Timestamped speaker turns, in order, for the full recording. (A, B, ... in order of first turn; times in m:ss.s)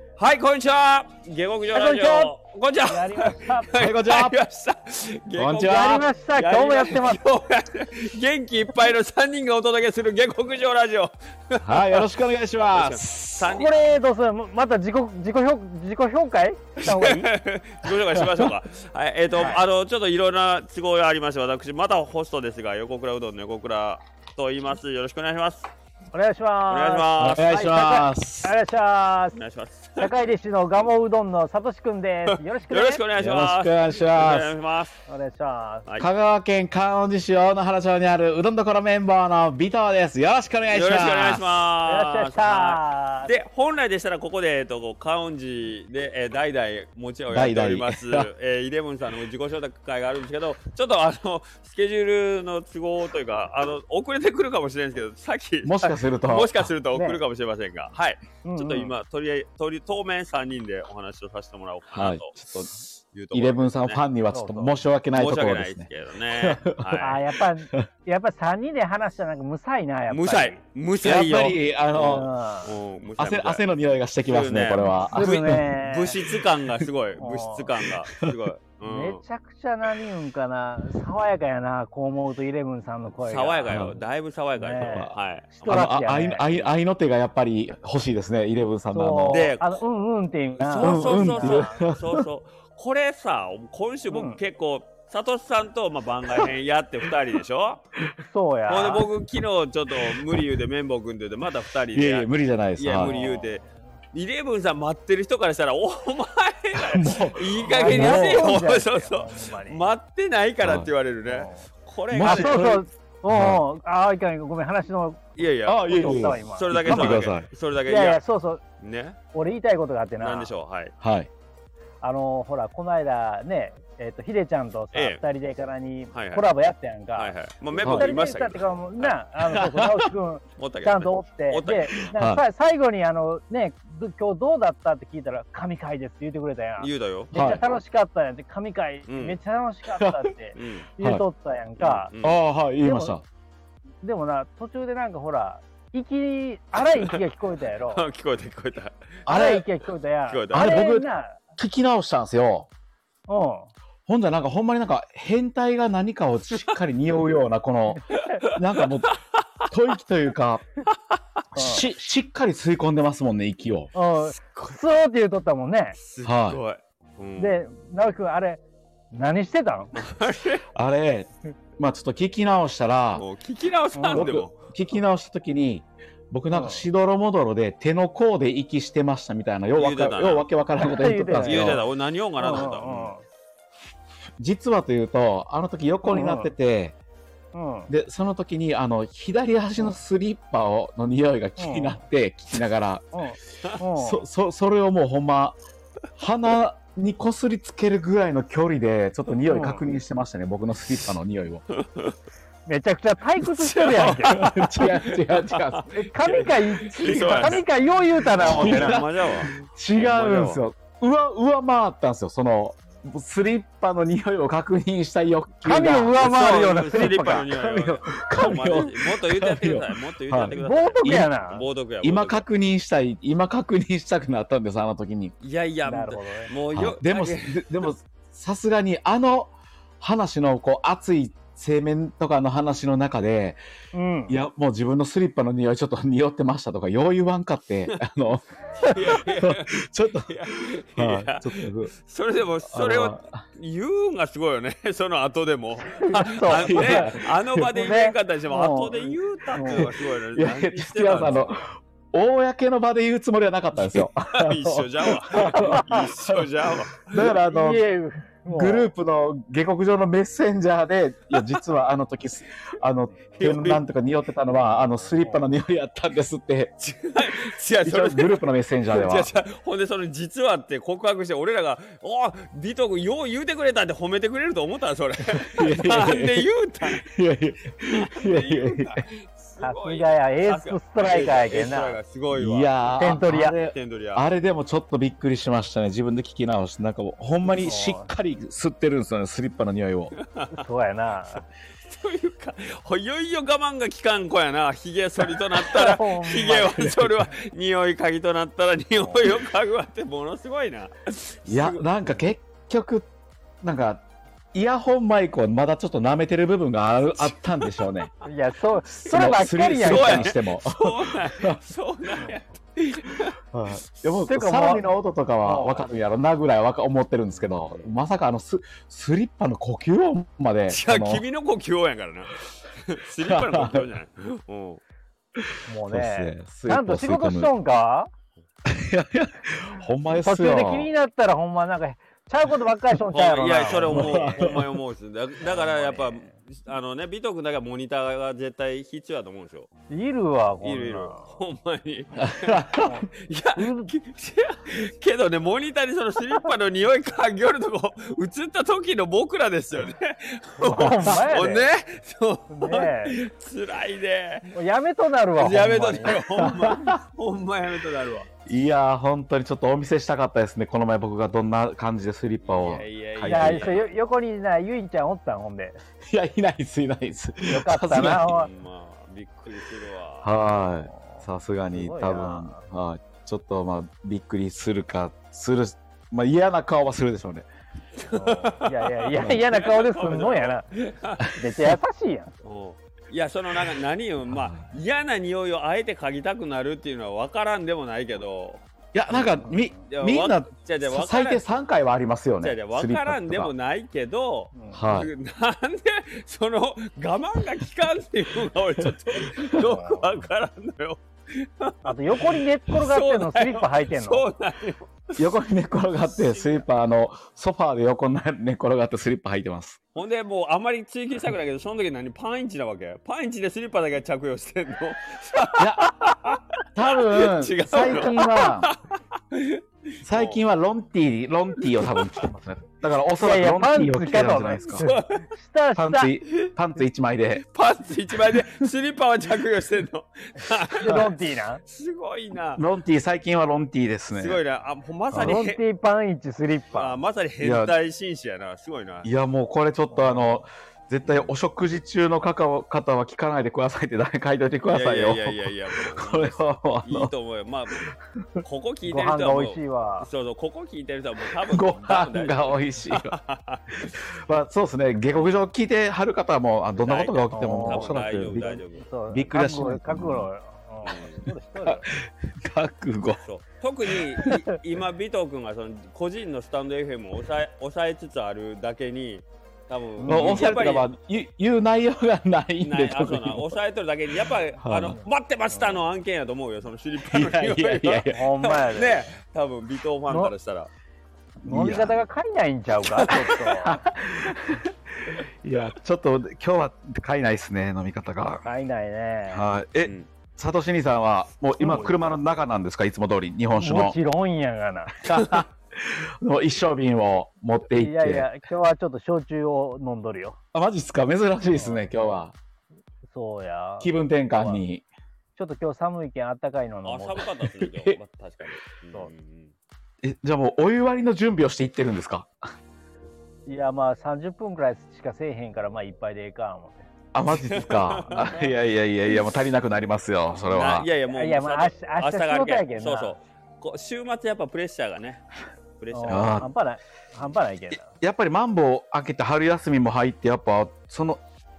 0:00.2-0:12.1 A
0:01.7-0:02.3 B
0:02.9-0:03.7 B
0:03.8-0:04.4 C
0:05.3-0:06.0 C
0:05.6-0:07.2 B
0:11.6-0:13.6 C
0:12.7-0:13.7 A
0:13.4-0:17.3 B
0:16.8-0:25.7 A
0:18.2-0:18.5 C
0:26.1-0:29.4 B
0:26.7-0:27.6 A
0:27.2-0:28.5 C
0:29.3-0:30.1 A
0:30.0-0:33.0 B
0:32.3-0:35.0 A
0:33.1-0:34.5 C
0:35.1-0:35.9 B
0:36.0-0:41.4 C
0:40.7-1:02.3 A
0:41.8-0:43.3 B
0:47.3-0:48.3 C
0:55.6-0:56.7 C
0:56.9-0:57.2 B
0:58.4-0:58.9 B
1:01.9-1:02.8 C
1:03.1-1:04.0 A
1:03.3-1:07.0 C
1:04.3-1:04.7 B
1:05.1-1:07.2 A
1:07.0-1:10.6 B
1:10.1-1:13.6 A
1:11.0-1:12.3 C
1:12.0-1:12.7 B
1:13.2-1:15.7 C
1:14.2-1:19.2 A
1:15.0-1:16.2 B
1:17.2-1:17.7 B
1:18.1-1:18.4 C
1:18.8-1:23.8 B
1:23.2-1:26.6 A
1:23.7-1:24.0 C
1:24.6-1:26.5 B
1:24.8-1:25.1 C
1:25.6-1:29.5 C
1:28.9-1:31.8 B
1:29.3-1:29.8 A
1:30.6-1:37.8 A
1:30.7-1:32.2 C
1:34.1-1:34.4 B
1:38.2-1:39.1 B
1:38.7-1:52.8 A
1:40.0-1:40.3 C
1:41.9-1:43.1 C
1:43.0-1:43.6 B
1:46.7-1:48.6 C
1:47.7-1:49.9 B
1:50.6-1:50.9 C
1:51.3-1:51.7 B
1:52.1-1:53.6 C
1:52.2-1:57.2 B
1:55.4-1:58.2 A
1:55.6-1:57.5 C
1:57.9-1:58.6 B
1:58.8-1:59.2 A
1:59.3-2:00.5 B
2:00.2-2:00.9 A
2:01.0-2:01.3 C
2:02.0-2:22.1 B
2:04.9-2:05.2 A
2:06.1-2:06.5 A
2:07.2-2:09.1 A
2:07.8-2:08.1 C
2:09.4-2:10.1 C
2:10.6-2:12.1 A
2:12.1-2:12.4 C
2:16.8-2:17.3 A
2:17.3-2:17.6 C
2:19.1-2:19.4 A
2:20.5-2:20.9 A
2:21.0-2:21.2 C
2:21.8-2:22.4 A
2:22.2-2:23.2 C
2:22.8-2:23.2 B
2:24.0-2:28.0 B
2:26.8-2:27.2 A
2:27.9-2:29.2 A
2:29.2-2:29.6 C
2:29.3-2:31.4 B
2:30.3-2:30.7 A
2:30.5-2:32.7 C
2:33.3-2:33.7 B
2:34.1-2:39.2 C
2:38.1-2:38.4 B
2:38.1-2:39.2 A
2:39.7-2:40.6 C
2:41.5-2:41.8 B
2:41.5-2:43.9 C
2:43.9-2:46.0 B
2:46.0-2:47.6 A
2:46.2-2:46.6 C
2:47.4-2:48.6 B
2:49.1-2:50.0 B
2:49.9-2:50.6 A
2:50.7-2:53.2 C
2:53.1-2:54.6 A
2:53.9-2:54.3 B
2:54.1-3:01.8 C
2:56.5-2:56.8 B
2:59.7-3:00.4 A
3:00.8-3:01.8 B
3:01.4-3:03.1 A
3:02.4-3:03.2 B
3:04.4-3:07.0 C
3:06.0-3:06.5 B
3:07.5-3:07.9 B
3:07.9-3:13.0 C
3:11.6-3:12.0 B
3:13.1-3:14.2 B
3:13.9-3:15.6 C
3:16.2-3:21.6 C
3:19.5-3:19.8 B
3:21.7-3:22.2 A
3:22.7-3:24.5 B
3:23.6-3:27.6 A
3:24.0-3:25.9 C
3:25.9-3:29.0 B
3:28.3-3:30.6 A
3:28.4-3:41.3 C
3:35.6-3:37.5 B
3:36.1-3:42.5 A
3:40.6-3:41.6 B
3:42.0-3:45.3 C
3:45.4-3:47.9 A
3:45.8-3:46.5 B
3:46.7-3:53.6 C
3:53.9-3:54.4 B
3:54.3-3:58.4 C
3:58.9-4:11.6 A
3:59.0-4:00.3 C
4:01.0-4:01.9 C
4:02.7-4:03.4 C
4:06.0-4:07.1 B
4:06.5-4:07.7 C
4:07.7-4:09.9 B
4:09.8-4:16.5 C
4:13.8-4:17.3 A
4:15.4-4:16.0 B
4:17.1-4:17.8 C
4:17.2-4:18.9 B
4:18.5-4:26.7 C
4:21.3-4:21.6 A
4:23.3-4:23.8 A
4:24.8-4:25.4 B
4:26.8-4:37.0 A
4:27.8-4:29.3 C
4:35.4-4:39.0 C
4:37.9-4:44.2 A
4:39.6-4:42.0 B
4:42.3-4:50.1 C
4:43.0-4:43.6 B
4:47.6-4:48.1 B
4:50.2-4:50.6 A
4:50.5-4:51.4 B
4:51.8-5:01.8 A
4:55.6-4:56.7 B
4:56.7-4:57.3 C
5:01.5-5:03.1 C
5:03.6-5:08.1 C
5:07.6-5:08.0 A
5:08.2-5:10.3 B
5:09.0-5:11.6 C
5:09.8-5:13.4 A
5:13.5-5:21.2 C
5:14.2-5:14.9 B
5:15.4-5:15.8 B
5:17.4-5:18.0 A
5:20.7-5:24.8 A
5:23.2-5:23.9 C
5:25.4-5:27.5 C
5:25.7-5:28.1 B
5:28.6-5:30.9 C
5:30.2-5:34.6 B
5:33.1-5:39.7 A
5:33.8-5:34.7 C
5:35.4-5:36.3 B
5:39.9-5:41.4 B
5:40.6-5:54.5 A
5:42.2-5:43.0 C
5:42.8-5:43.9 B
5:50.6-5:51.7 B
5:52.5-5:53.2 B
5:54.5-5:56.3 B
5:55.4-5:58.3 A
5:56.4-5:57.0 C
5:58.4-6:03.8 C
6:02.4-6:03.8 A
6:03.3-6:05.8 B
6:06.1-6:08.4 C
6:07.4-6:08.5 B
6:08.0-6:10.3 A
6:10.2-6:17.5 C
6:10.9-6:12.6 B
6:18.0-6:21.4 A
6:18.1-6:20.6 B
6:21.3-6:22.3 B
6:22.4-6:31.6 A
6:28.9-6:33.5 C
6:29.2-6:29.8 B
6:32.4-6:45.3 A
6:34.6-6:35.0 B
6:34.7-6:35.1 C
6:39.3-6:39.6 C
6:39.6-6:40.2 B
6:41.8-6:44.2 B
6:45.2-6:49.8 C
6:46.1-6:46.6 A
6:49.9-7:00.4 A
6:55.6-6:56.0 C
6:56.7-6:58.7 C
7:00.0-7:04.9 C
7:01.6-7:02.2 A
7:03.2-7:06.1 B
7:04.8-7:05.2 A
7:05.7-7:07.4 C
7:07.4-7:11.1 A
7:08.3-7:08.6 C
7:10.8-7:11.6 B
7:11.6-7:12.6 A
7:12.6-7:14.4 C
7:14.1-7:15.6 A
7:15.1-7:15.4 C
7:15.2-7:17.0 B
7:16.7-7:19.1 A
7:17.4-7:17.7 C
7:19.0-7:27.1 C
7:19.9-7:20.4 B
7:24.7-7:27.8 A
7:28.4-7:34.1 A
7:28.9-7:30.1 B
7:31.4-7:33.2 C
7:33.9-7:40.3 C
7:36.8-7:38.9 A
7:37.3-7:41.9 B
7:40.8-7:41.2 A
7:41.6-7:43.2 C
7:43.2-7:50.9 A
7:43.9-7:44.4 C
7:50.0-7:50.6 B
7:50.1-7:53.6 C
7:52.6-8:00.7 A
7:54.6-7:55.0 C
7:55.6-7:55.8 B
7:57.0-7:58.3 C
7:58.1-7:59.1 B
8:01.4-8:02.0 C
8:01.4-8:03.8 B
8:02.8-8:03.5 A
8:03.6-8:08.4 C
8:08.4-8:09.5 B
8:09.3-8:14.0 C
8:09.8-8:10.1 A
8:11.6-8:11.9 B
8:13.5-8:15.1 B
8:15.0-8:18.3 C
8:17.7-8:20.4 B
8:20.5-8:22.3 C
8:21.5-8:22.2 B
8:23.1-8:24.6 B
8:23.8-8:24.8 C
8:25.4-8:27.3 B
8:26.8-8:29.5 A
8:27.6-8:28.0 C
8:30.0-8:32.3 C
8:33.5-8:36.9 B
8:37.1-8:40.9 C
8:37.3-8:38.5 A
8:38.1-8:38.4 B
8:40.5-8:45.2 A
8:41.0-8:43.2 B
8:45.8-8:46.5 A
8:45.9-8:47.9 B
8:46.1-8:46.5 C
8:48.0-8:51.2 C